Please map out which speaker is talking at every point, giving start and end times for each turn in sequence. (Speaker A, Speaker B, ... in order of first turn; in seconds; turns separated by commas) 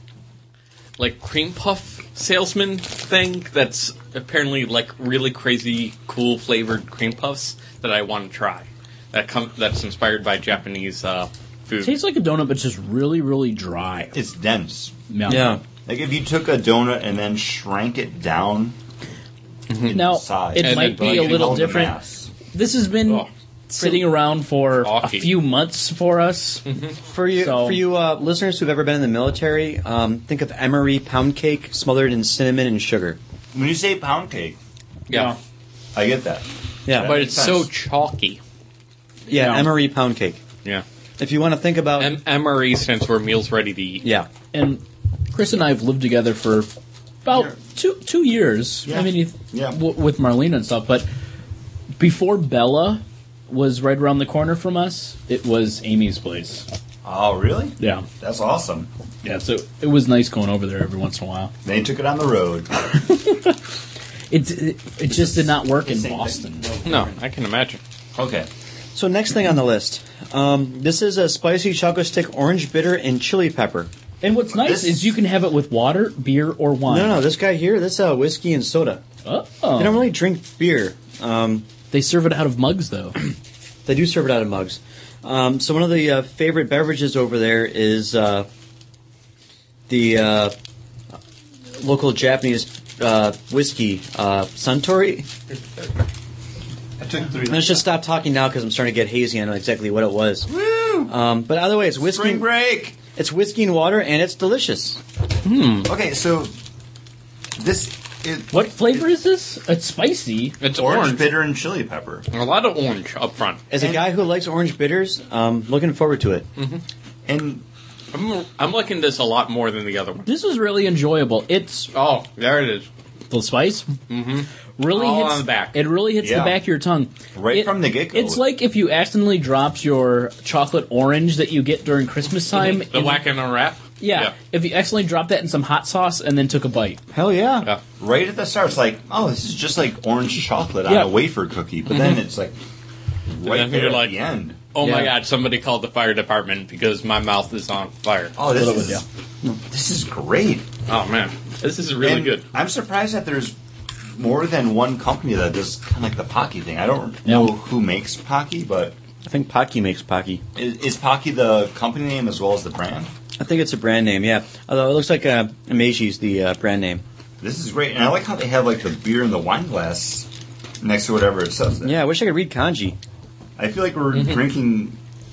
Speaker A: 1.0-12.0, Speaker B: 11.8-14.2, Speaker C: 14.1-14.9, Speaker B: 15.1-15.6, Speaker D: 15.3-15.6, Speaker C: 15.9-18.8, Speaker A: 19.7-20.0, Speaker C: 19.8-22.3, Speaker B: 19.9-22.0, Speaker A: 20.6-21.7, Speaker B: 22.5-26.6, Speaker A: 24.8-25.4, Speaker A: 26.7-27.0, Speaker D: 27.1-33.2, Speaker B: 27.3-27.9, Speaker C: 33.5-34.6, Speaker A: 35.1-35.4, Speaker B: 35.1-35.4, Speaker C: 35.9-37.7, Speaker D: 36.9-37.1, Speaker A: 37.0-38.4, Speaker D: 39.3-40.4, Speaker B: 39.3-39.8, Speaker D: 41.2-42.1, Speaker A: 42.0-44.1, Speaker D: 44.0-44.3, Speaker B: 44.5-46.7, Speaker B: 47.2-51.1, Speaker C: 48.9-49.8, Speaker B: 52.0-56.7, Speaker C: 57.0-58.9, Speaker B: 57.8-58.1, Speaker B: 59.2-61.5, Speaker C: 61.6-62.7, Speaker B: 63.1-63.5, Speaker B: 64.3-66.7, Speaker C: 65.1-67.1, Speaker A: 66.8-67.8, Speaker C: 68.2-68.5, Speaker D: 69.0-73.9, Speaker B: 74.2-77.2, Speaker C: 74.5-75.1, Speaker D: 76.9-79.0, Speaker B: 79.2-80.1, Speaker D: 79.8-81.7, Speaker B: 81.9-83.2, Speaker D: 83.9-88.5, Speaker D: 89.9-90.5, Speaker D: 91.8-95.3, Speaker C: 97.0-97.9, Speaker D: 97.5-100.5, Speaker C: 100.5-101.1, Speaker D: 101.1-102.5, Speaker C: 102.0-103.0, Speaker D: 103.1-105.0, Speaker B: 105.5-105.9, Speaker C: 105.8-106.5, Speaker C: 107.6-109.0, Speaker B: 108.5-110.6, Speaker A: 110.6-111.3, Speaker C: 110.7-112.3, Speaker A: 112.3-113.7, Speaker D: 113.7-116.5, Speaker A: 116.6-116.8, Speaker C: 117.3-117.7, Speaker A: 118.1-120.3, Speaker B: 120.3-121.9, Speaker A: 121.9-122.9, Speaker B: 123.3-124.0, Speaker A: 124.1-125.8, Speaker B: 124.8-133.2, Speaker C: 126.2-126.6, Speaker C: 127.3-128.4, Speaker A: 132.5-134.3, Speaker B: 134.0-137.0, Speaker D: 137.1-137.7, Speaker C: 138.0-142.6, Speaker B: 140.9-141.1, Speaker A: 141.9-142.2, Speaker C: 143.3-144.6, Speaker A: 143.4-144.2, Speaker A: 144.7-148.4, Speaker D: 144.8-145.1, Speaker C: 148.4-149.0, Speaker B: 148.5-149.0, Speaker C: 149.6-150.7, Speaker A: 150.9-152.4, Speaker C: 152.0-153.6, Speaker C: 154.2-158.9, Speaker D: 159.2-160.4, Speaker C: 160.6-163.1, Speaker D: 163.4-167.0, Speaker C: 167.4-170.3, Speaker C: 170.8-172.0, Speaker D: 171.8-173.0, Speaker C: 173.6-175.0